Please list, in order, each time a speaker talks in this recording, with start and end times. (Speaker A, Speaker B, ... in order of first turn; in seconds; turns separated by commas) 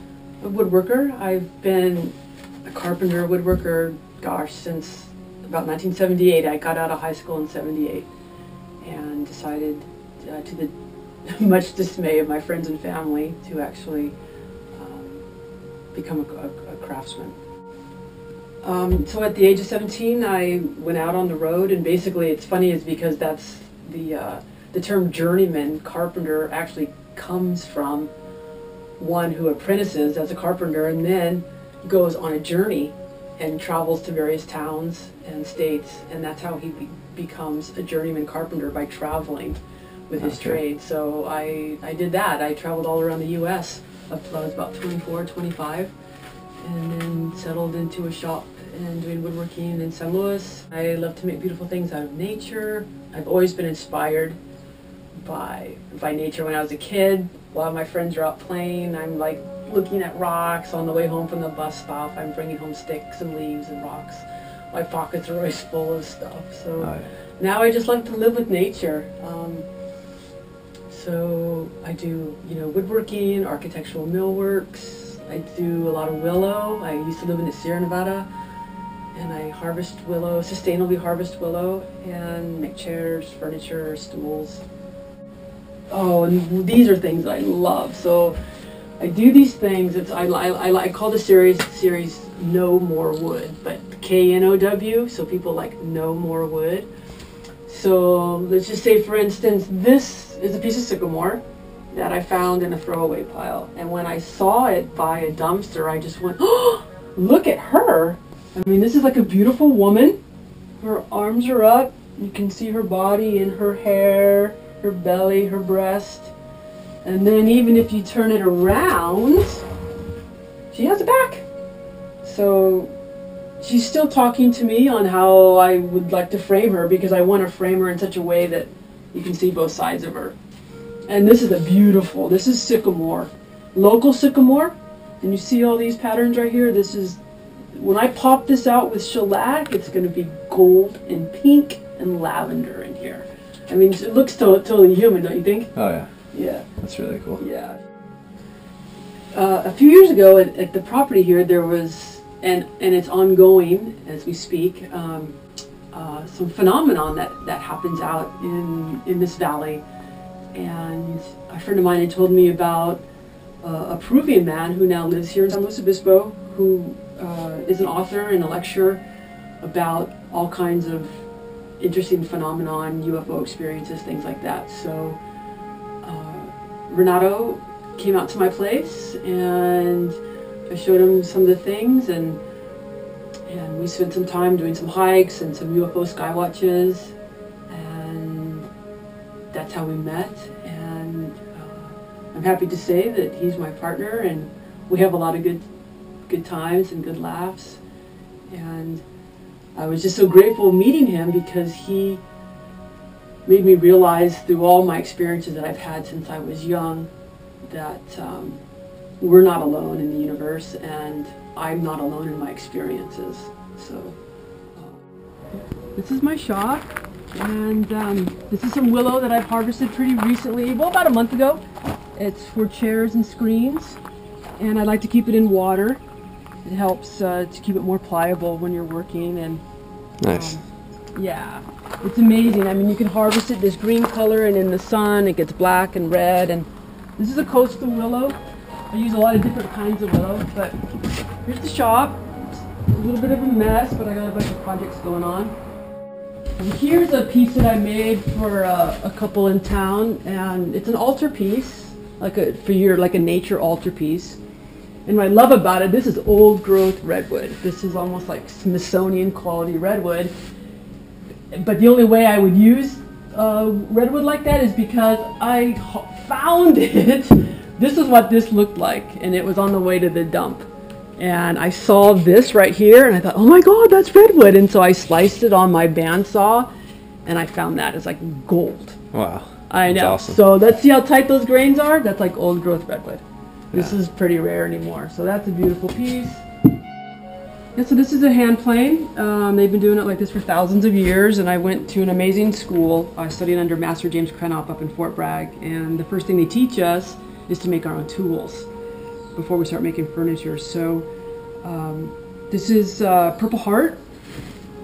Speaker A: 0.4-2.1, Speaker A: 2.7-8.1, Speaker A: 8.8-10.7, Speaker A: 11.3-14.2, Speaker A: 14.7-15.2, Speaker A: 15.9-17.4, Speaker A: 18.6-28.1, Speaker A: 29.0-45.9, Speaker B: 40.2-40.6, Speaker A: 46.6-54.4, Speaker A: 55.2-69.7, Speaker B: 66.8-67.0, Speaker A: 70.9-78.3, Speaker A: 79.1-84.6, Speaker A: 85.9-88.4, Speaker A: 89.0-96.9, Speaker A: 97.7-110.2, Speaker A: 110.8-116.3, Speaker A: 117.0-119.6, Speaker A: 120.7-121.5, Speaker A: 122.2-122.9, Speaker A: 123.6-130.4, Speaker A: 131.1-137.2, Speaker A: 137.7-145.7, Speaker B: 145.8-146.1, Speaker A: 146.3-146.7, Speaker B: 146.8-147.4, Speaker A: 147.4-147.8, Speaker A: 149.3-155.4, Speaker A: 155.9-159.8, Speaker A: 160.5-163.0, Speaker A: 163.6-169.0, Speaker A: 169.6-171.2, Speaker A: 171.8-175.2, Speaker A: 176.0-180.2, Speaker A: 180.7-182.4, Speaker A: 183.5-187.1, Speaker A: 187.7-188.7, Speaker A: 189.5-195.7, Speaker A: 196.3-197.8, Speaker A: 198.5-199.0, Speaker A: 199.8-202.2, Speaker A: 203.5-207.1, Speaker A: 207.7-208.6, Speaker A: 209.2-214.2, Speaker A: 214.7-215.0, Speaker A: 215.9-221.6, Speaker A: 222.2-224.0, Speaker A: 224.6-226.0, Speaker A: 226.6-229.6, Speaker B: 230.2-230.6, Speaker A: 230.3-230.6, Speaker A: 231.2-240.8, Speaker A: 241.4-245.5, Speaker A: 246.6-254.4, Speaker A: 255.1-260.3, Speaker A: 261.5-276.7, Speaker A: 277.2-279.0, Speaker B: 279.1-280.4, Speaker A: 279.7-283.2, Speaker A: 283.7-286.4, Speaker A: 287.8-298.7, Speaker A: 299.4-301.1, Speaker A: 301.6-304.0